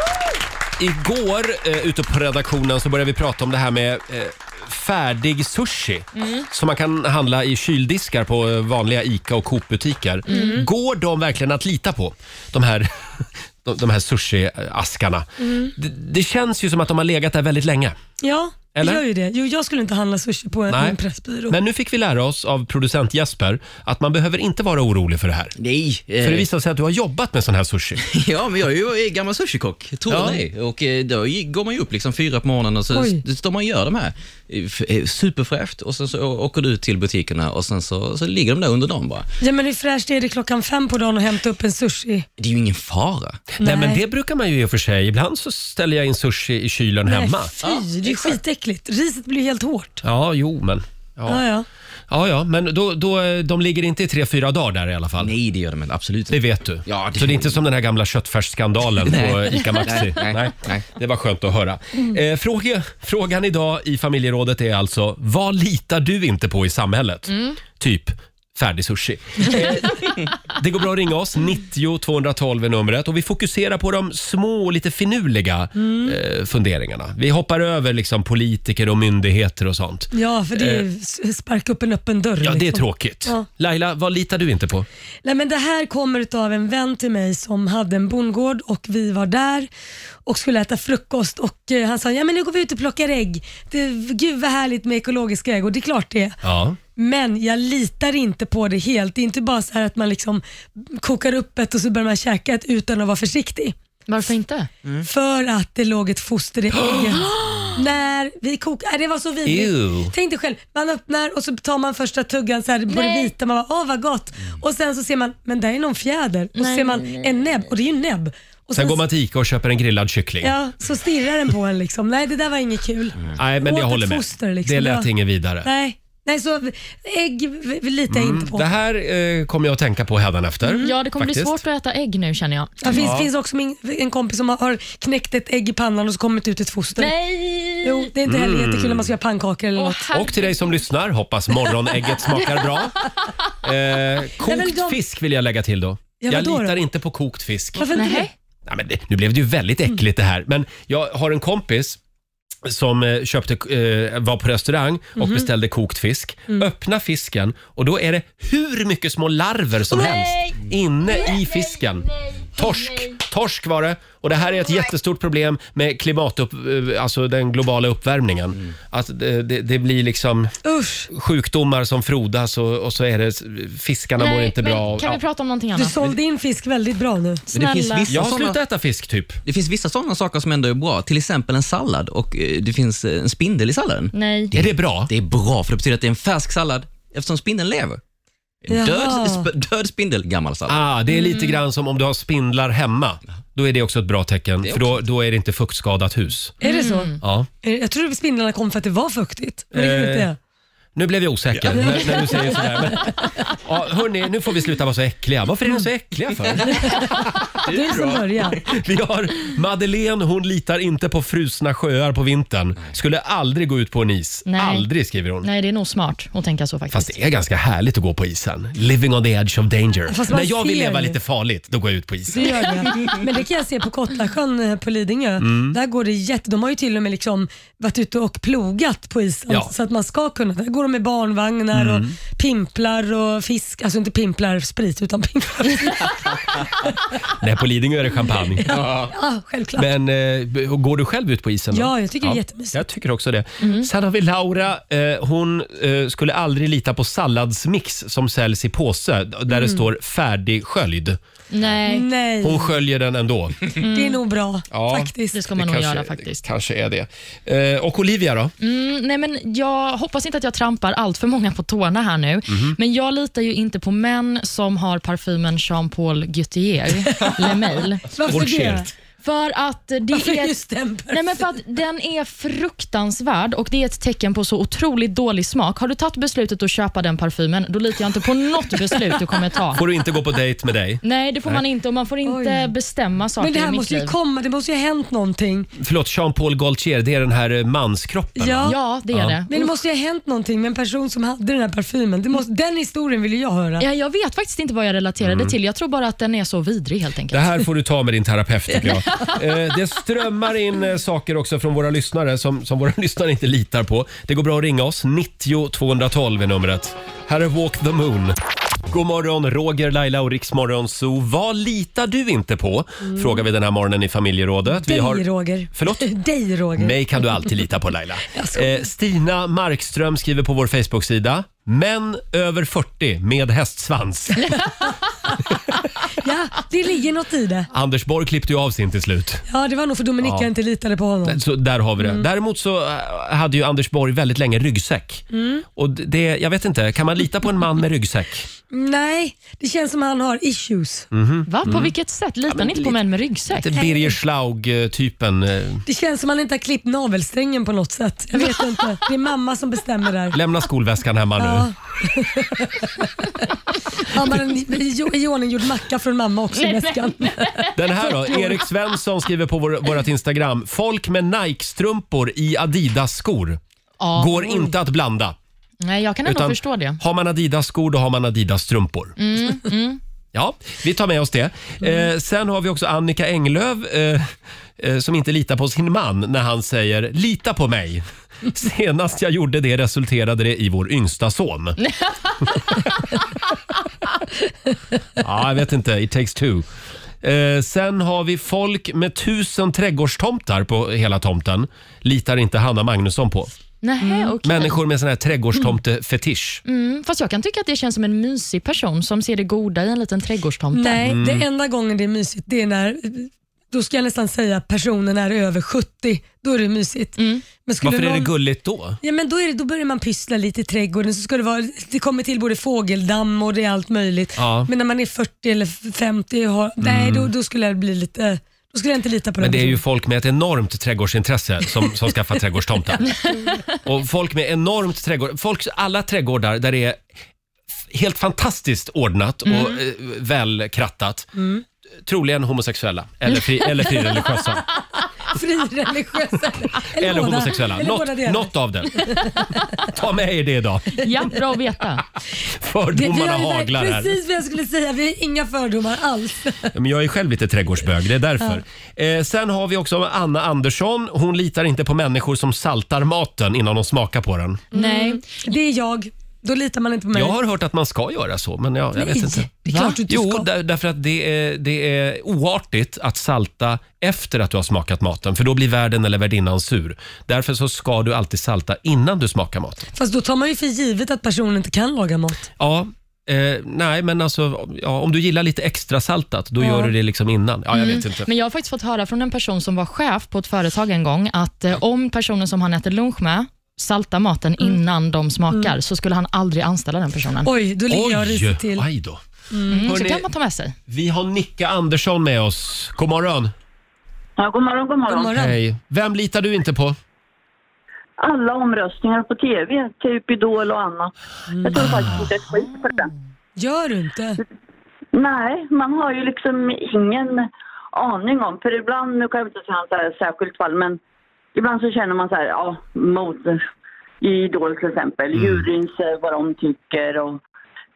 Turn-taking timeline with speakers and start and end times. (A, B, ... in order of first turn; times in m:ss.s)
0:00.8-0:18.0 A
0:06.2-0:06.5 B
0:10.3-0:10.6 B
0:10.3-0:10.7 C
0:15.4-0:15.7 C
0:18.2-0:21.6 C
0:18.7-0:19.0 A
0:20.7-0:21.0 A
0:21.5-0:25.6 A
0:25.6-0:26.5 D
0:26.2-0:28.0 A
0:28.0-0:39.3 D
0:30.1-0:30.4 A
0:32.9-0:33.2 C
0:39.4-0:42.3 C
0:42.4-0:43.5 D
0:43.6-0:44.0 C
0:43.6-0:47.5 A
0:47.1-0:50.0 C
0:47.6-0:48.4 D
0:50.0-0:51.4 A
0:51.3-0:51.7 C
0:52.1-0:55.3 A
0:55.2-0:57.6 D
0:56.3-1:20.9 A
0:59.0-1:00.9 D
1:15.8-1:16.2 C
1:20.1-1:23.5 C
1:22.4-1:24.9 A
1:25.2-1:29.7 C
1:30.3-1:36.4 C
1:36.4-1:36.8 A
1:37.0-1:43.8 C
1:44.1-1:44.7 B
1:45.0-1:59.0 C
1:49.4-1:50.1 A
1:52.9-1:53.3 B
1:56.6-1:57.3 B
1:58.7-2:00.6 A
2:00.4-2:05.1 C
2:03.4-2:05.7 A
2:05.6-2:08.7 C
2:08.1-2:11.6 A
2:10.6-2:10.9 C
2:10.8-2:13.0 B
2:12.8-2:17.2 C
2:13.0-2:13.3 A
2:17.0-2:18.1 B
2:17.8-2:20.1 C
2:18.3-2:19.1 A
2:19.8-2:20.8 B
2:20.1-2:23.0 A
2:23.6-2:27.9 A
2:24.4-2:25.0 C
2:26.2-2:26.8 C
2:27.8-2:28.3 C
2:27.9-2:28.3 B
2:28.7-2:32.0 A
2:32.7-2:50.6 A
2:35.2-2:35.5 C
2:39.9-2:40.5 C
2:50.6-2:51.1 C
2:51.1-2:55.2 A
2:54.2-2:56.0 B
2:55.8-2:57.4 C
2:57.5-2:58.6 D
2:57.5-2:58.1 B
2:58.1-2:59.4 A
2:59.4-3:08.0 D
3:04.1-3:04.5 B
3:04.5-3:05.1 A
3:08.6-3:10.8 D
3:08.7-3:09.5 C
3:10.7-3:16.6 A
3:11.1-3:11.6 B
3:14.6-3:15.0 D
3:16.6-3:20.4 C
3:16.6-3:17.2 B
3:17.2-3:17.5 A
3:19.7-3:20.3 A
3:21.0-3:27.0 A
3:21.6-3:22.2 D
3:21.8-3:22.6 C
3:27.7-3:28.6 D
3:27.7-3:28.6 C
3:28.7-3:35.5 A
3:34.4-3:34.9 B
3:35.4-3:37.2 B
3:36.9-3:42.6 A
3:40.1-3:41.2 C
3:42.3-3:56.1 C
3:45.4-3:45.8 A
3:51.7-3:52.2 A
3:57.4-3:58.8 A
3:58.7-3:59.1 D
3:59.1-3:59.9 C
3:59.8-4:11.2 A
4:01.7-4:02.8 C
4:03.6-4:03.9 B
4:09.5-4:09.9 C
4:11.5-4:12.1 B
4:11.8-4:12.8 C
4:12.4-4:13.6 A
4:13.8-4:14.2 B
4:13.9-4:15.4 C
4:14.7-4:18.5 A
4:15.3-4:16.4 B
4:18.6-4:28.1 B
4:22.5-4:22.8 A
4:28.1-4:28.9 C
4:28.3-4:28.9 A
4:29.2-4:30.6 B
4:30.1-4:31.4 C
4:31.1-4:39.8 B
4:39.8-4:41.6 A
4:41.0-4:44.1 B
4:42.2-4:42.7 C
4:43.4-4:45.7 C
4:45.8-4:49.4 A
4:48.4-4:48.8 C
4:48.6-4:49.7 B
4:49.5-4:53.8 C
4:53.8-4:57.7 B
4:55.2-4:55.5 A
4:57.3-5:08.4 A
5:08.9-5:16.1 A
5:13.0-5:13.4 C
5:14.7-5:17.4 C
5:16.8-5:24.6 A
5:18.3-5:18.8 C
5:26.2-5:27.7 C
5:27.7-5:29.4 A
5:29.5-5:31.4 C
5:30.2-5:30.5 A
5:31.2-5:38.5 A
5:32.0-5:32.3 C
5:35.3-5:35.6 C
5:38.7-5:41.1 C
5:41.1-5:41.9 A
5:41.5-5:43.8 B
5:42.5-5:42.9 A
5:43.5-5:45.8 A
5:45.9-5:50.4 C
5:50.3-5:51.7 A
5:51.4-5:52.9 C
5:54.1-5:58.6 C
5:56.6-5:57.7 B
5:57.8-6:03.6 A
6:04.0-6:04.7 B
6:04.2-6:05.4 A
6:05.8-6:07.0 B
6:06.3-6:09.2 A
6:09.2-6:10.0 B
6:10.3-6:21.8 A
6:25.2-6:26.7 A
6:27.2-6:33.5 A
6:33.8-6:34.8 B
6:34.0-6:34.4 C
6:34.4-6:36.6 A
6:36.6-6:41.0 B
6:40.7-6:48.3 C
6:41.0-6:41.4 A
6:47.2-6:47.4 B
6:47.8-6:49.0 A
6:49.0-6:59.8 C
6:54.4-6:54.7 A
6:56.8-6:57.3 A
6:59.4-7:03.1 A
7:03.8-7:07.0 A
7:07.9-7:11.3 A
7:11.4-7:11.6 C
7:12.0-7:14.6 A
7:15.3-7:19.7 C
7:17.0-7:19.1 A
7:19.9-7:21.3 A
7:21.0-7:22.0 B
7:22.6-7:24.2 A
7:22.9-7:26.7 C
7:26.7-7:34.6 A
7:34.7-7:37.4 C
7:34.7-7:35.2 B
7:37.1-7:49.8 A
7:39.0-7:40.5 C
7:50.0-7:52.5 C
7:52.6-7:58.3 A
7:56.6-7:56.9 C
7:57.7-8:07.5 B
8:07.4-8:08.9 C
8:07.9-8:09.2 A
8:09.5-8:09.9 C
8:09.7-8:10.8 B
8:09.8-8:10.2 A
8:10.9-8:13.5 A
8:14.4-8:15.3 E
8:15.1-8:15.6 C
8:15.3-8:17.0 A
8:18.2-8:21.1 E
8:21.5-8:22.2 C
8:21.6-8:23.1 E
8:23.6-8:24.4 C
8:25.1-8:31.0 E
8:31.6-8:33.6 E
8:34.2-8:37.4 E
8:35.4-8:35.6 A